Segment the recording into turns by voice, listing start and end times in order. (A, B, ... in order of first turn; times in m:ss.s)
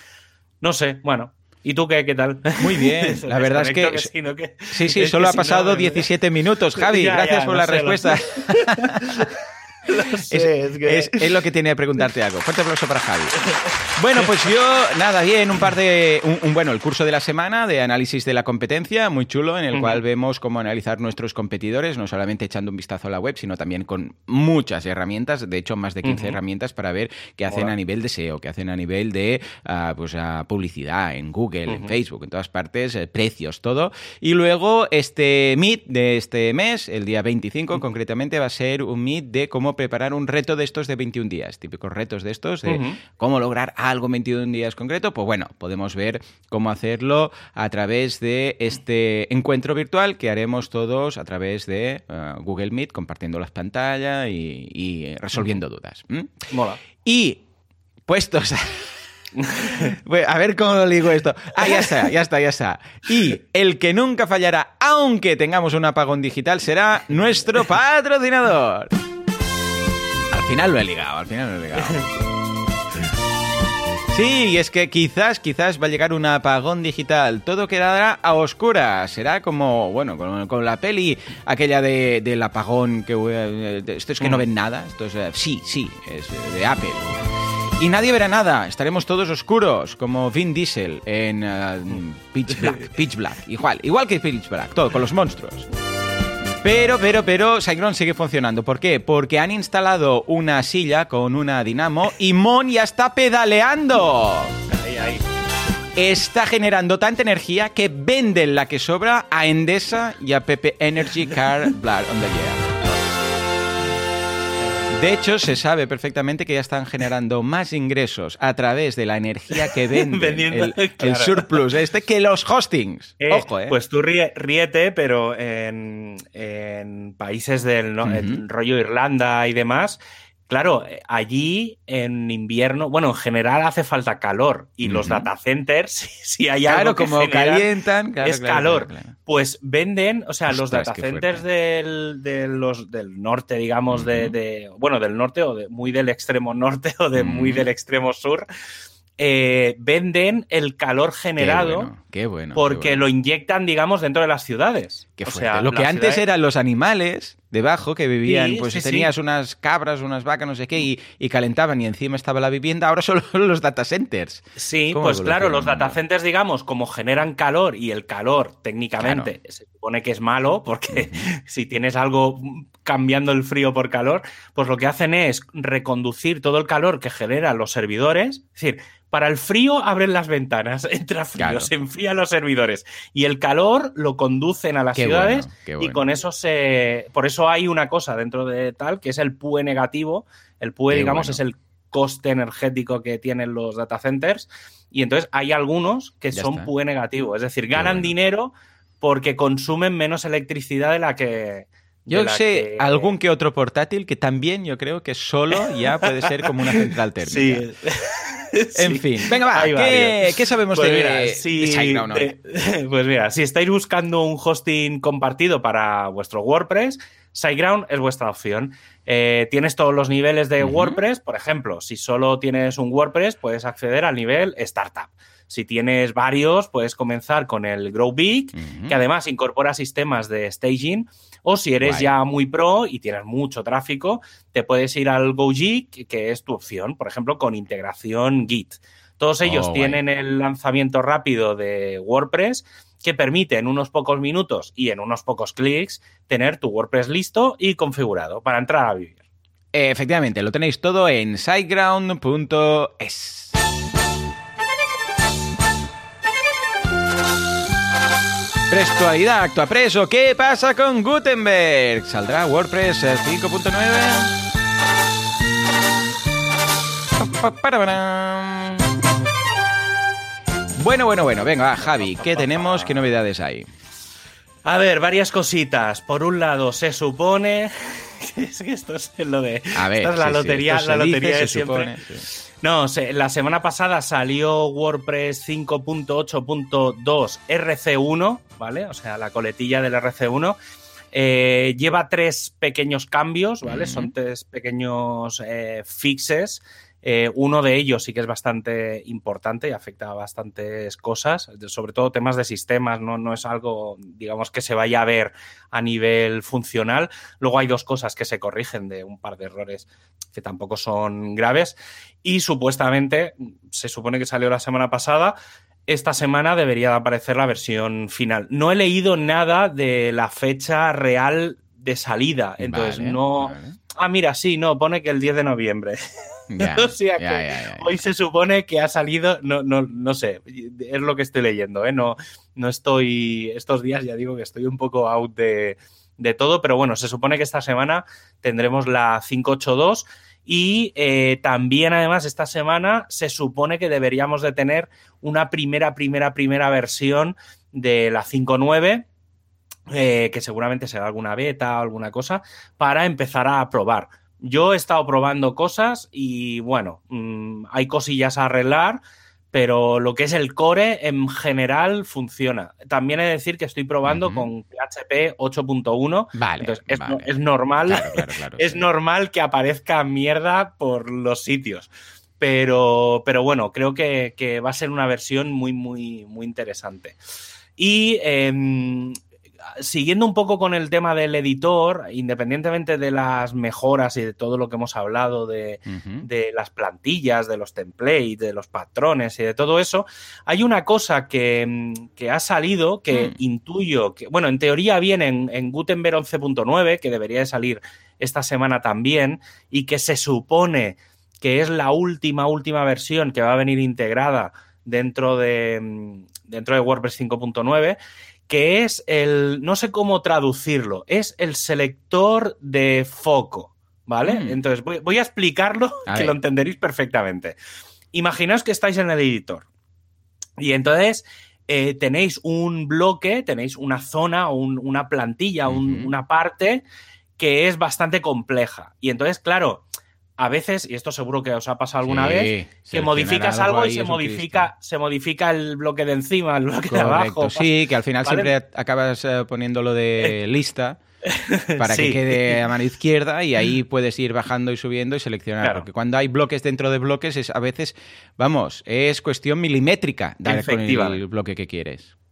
0:00.6-0:06.1 A
0:02.6-0:04.1 B
0:04.7-0:09.3 B
0:06.8-0:11.4 A
0:09.9-0:13.4 B
0:13.5-0:14.3 A
0:14.0-0:57.4 B
0:19.7-0:20.0 A
0:26.0-0:26.4 A
0:31.7-0:31.9 A
0:42.7-0:43.0 A
0:56.5-0:56.8 A
0:58.1-0:59.0 B
0:59.4-0:59.9 A
0:59.6-1:09.0 B
1:01.6-1:01.9 A
1:10.3-1:12.1 B
1:14.1-1:27.2 B
1:27.8-1:35.7 B
1:32.5-1:32.8 A
1:36.6-1:44.6 B
1:44.7-1:45.2 A
1:46.0-1:52.7 B
1:54.9-2:03.8 B
1:59.6-2:01.6 A
2:03.2-2:17.7 A
2:08.0-2:08.4 B
2:14.8-2:15.3 B
2:16.7-2:19.2 B
2:18.2-2:28.5 A
2:20.5-2:21.4 B
2:23.9-2:24.4 B
2:27.2-2:27.7 B
2:29.2-2:31.9 A
2:31.4-2:33.0 B
2:32.6-2:36.2 A
2:35.2-2:46.0 B
2:38.2-2:39.1 A
2:44.6-3:23.1 A
2:49.0-2:49.3 B
2:50.9-2:51.3 B
3:01.4-3:01.7 B
3:05.0-3:06.0 B
3:10.9-3:11.4 B
3:16.3-3:16.7 B
3:17.7-3:18.1 B
3:22.1-3:27.7 B
3:25.6-4:09.2 A
3:28.8-3:32.3 B
3:40.6-3:41.0 B
3:48.6-3:49.0 B
3:51.8-3:52.1 B
3:59.4-4:00.0 B
4:09.7-4:13.6 B
4:18.7-4:24.3 B
4:27.2-4:29.0 B
4:30.8-4:33.7 B
4:32.0-4:33.0 A
4:34.6-4:50.6 A
4:39.8-4:42.3 B
4:51.1-5:15.4 A
4:53.7-4:54.1 B
5:15.9-5:49.1 A
5:22.6-5:23.8 B
5:26.5-5:28.0 B
5:49.9-5:59.0 A
5:59.5-6:17.2 A
6:04.0-6:04.5 B
6:06.4-6:07.3 B
6:07.8-6:08.8 B
6:17.8-6:19.2 A
6:19.8-6:57.6 A
6:25.9-6:26.3 B
6:54.2-6:54.6 B
6:56.1-6:56.4 B
6:58.1-6:59.7 A
7:00.6-7:06.8 A
7:05.7-7:06.1 B
7:07.4-7:09.8 A
7:10.4-7:17.7 A
7:12.0-7:14.7 B
7:16.9-7:21.0 B
7:18.2-7:18.5 A
7:21.2-7:22.6 A
7:21.8-7:32.1 B
7:30.4-7:31.2 A